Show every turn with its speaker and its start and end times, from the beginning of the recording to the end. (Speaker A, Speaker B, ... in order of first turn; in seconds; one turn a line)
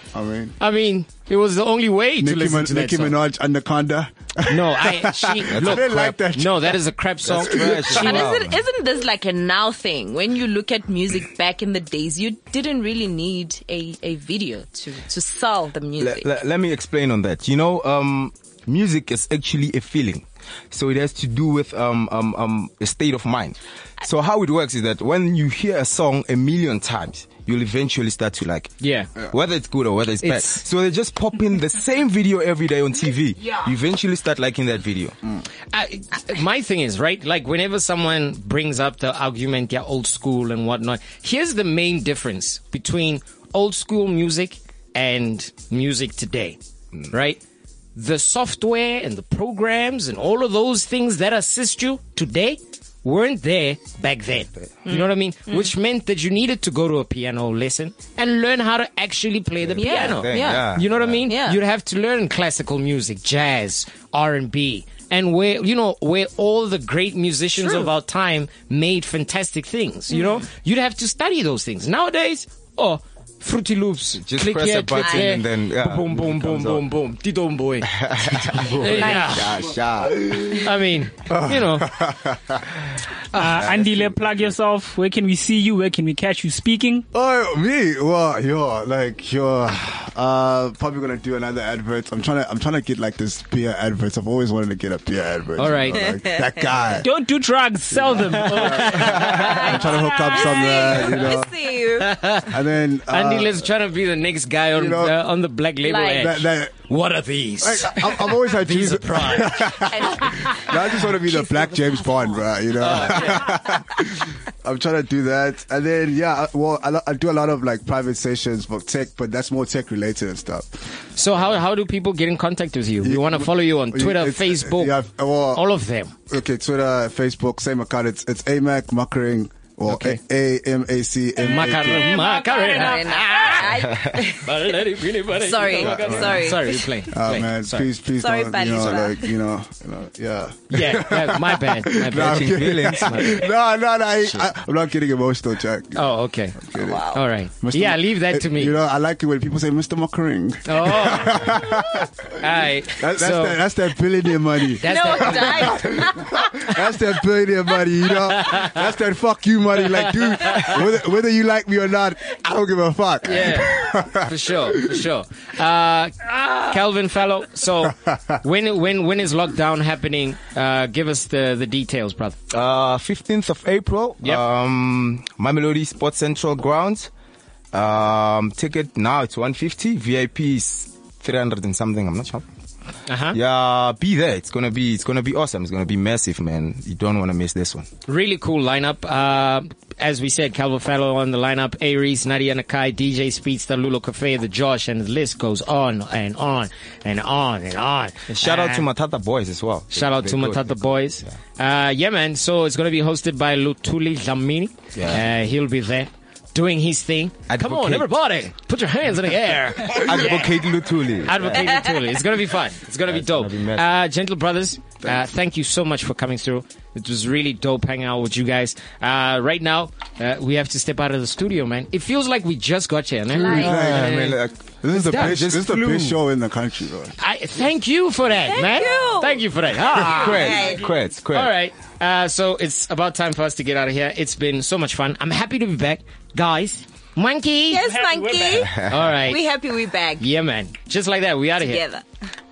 Speaker A: 0.1-0.6
Speaker B: 0.6-3.2
Speaker A: 2.2-6.8
Speaker B: 4.5-8.3
Speaker C: 5.5-5.9
Speaker C: 7.3-8.6
Speaker D: 8.0-16.3
Speaker C: 16.0-35.2
Speaker B: 28.8-29.2
Speaker B: 30.2-30.6
Speaker B: 35.7-46.6
Speaker B: 47.1-47.4
Speaker B: 48.0-79.6
Speaker D: 54.9-55.7
Speaker C: 59.6-61.3
Speaker D: 59.8-60.7
Speaker D: 61.3-61.6
Speaker C: 74.2-76.8
Speaker D: 75.0-75.3
Speaker C: 77.8-80.6
Speaker D: 78.7-79.5
Speaker A: 80.1-80.7
Speaker B: 80.5-81.9
Speaker A: 81.3-82.7
Speaker E: 83.3-87.1
Speaker C: 83.4-84.1
Speaker A: 87.1-97.1
Speaker B: 95.6-96.1
Speaker D: 95.9-96.8
Speaker E: 97.0-99.1
Speaker A: 97.9-101.5
Speaker B: 98.3-101.1
Speaker D: 98.9-102.2
Speaker B: 102.0-110.4
Speaker A: 102.4-103.7
Speaker A: 104.8-105.2
Speaker D: 105.8-106.3
Speaker A: 106.0-106.8
Speaker A: 107.6-120.8
Speaker D: 109.9-113.6
Speaker B: 112.8-113.6
Speaker B: 121.2-126.1
Speaker A: 123.0-125.6
Speaker A: 126.3-132.2
Speaker B: 129.9-130.2
Speaker B: 131.4-137.9
Speaker E: 132.1-133.4
Speaker D: 132.1-136.9
Speaker C: 133.9-134.2
Speaker A: 135.7-136.6
Speaker A: 137.1-146.1
Speaker D: 138.2-139.3
Speaker B: 138.6-139.0
Speaker B: 140.7-143.5
Speaker C: 142.1-143.4
Speaker B: 145.9-148.8
Speaker A: 146.6-152.4
Speaker D: 146.8-147.2
Speaker B: 150.7-151.8
Speaker B: 152.4-153.6
Speaker A: 153.0-165.1
Speaker B: 154.8-155.8
Speaker D: 154.8-156.7
Speaker B: 158.3-158.8
Speaker B: 159.8-160.9
Speaker B: 163.2-172.4
Speaker C: 172.5-177.1
Speaker C: 177.7-182.5
Speaker B: 183.1-183.4
Speaker C: 183.3-187.9
Speaker B: 188.1-198.9
Speaker C: 198.3-201.3
Speaker B: 199.9-210.5
Speaker C: 204.9-205.2
Speaker C: 207.5-208.1
Speaker C: 209.8-211.9
Speaker B: 211.3-224.4
Speaker C: 213.1-213.9
Speaker D: 223.4-223.7
Speaker C: 223.4-226.2
Speaker A: 223.4-227.2
Speaker B: 225.1-225.4
Speaker B: 227.2-230.8
Speaker D: 228.5-230.9
Speaker C: 230.1-231.5
Speaker B: 231.3-237.9
Speaker D: 237.7-240.2
Speaker E: 237.8-238.7
Speaker C: 238.5-239.2
Speaker B: 238.9-239.4
Speaker B: 240.2-241.8
Speaker D: 241.6-242.1